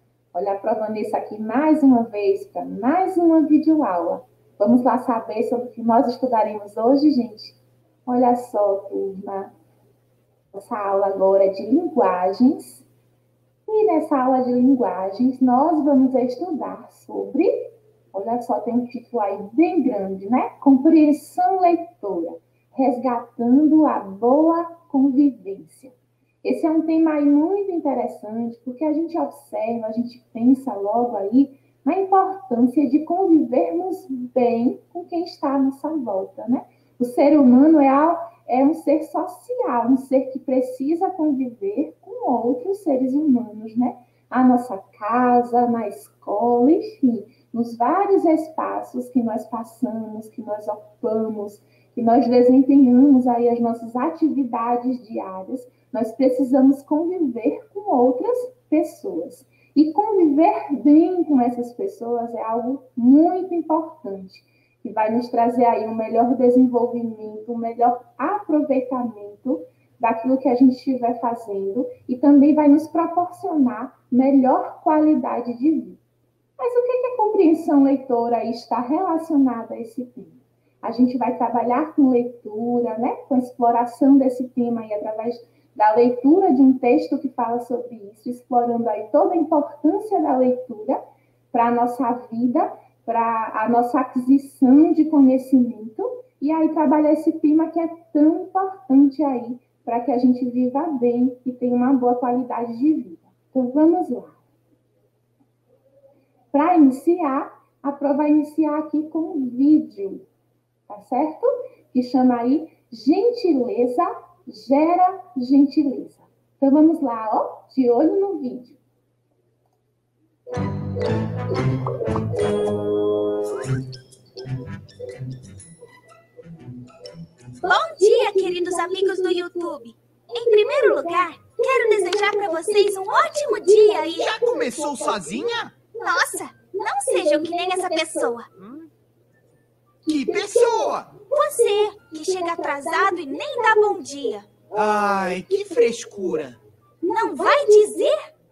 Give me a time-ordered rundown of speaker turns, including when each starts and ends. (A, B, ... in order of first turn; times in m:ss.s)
0:00.3-0:09.5 A
0:10.5-0:12.8 A
0:13.7-1:16.0 A
1:16.6-1:31.0 A
1:31.5-1:44.4 A
1:46.5-1:50.2 A
1:50.9-1:58.8 A
2:07.6-2:14.4 B
2:14.2-2:15.8 C
2:16.0-2:18.5 B
2:18.6-2:18.9 C
2:20.0-2:21.2 C
2:21.2-2:24.5 B
2:24.7-2:26.6 C
2:27.0-2:28.2 B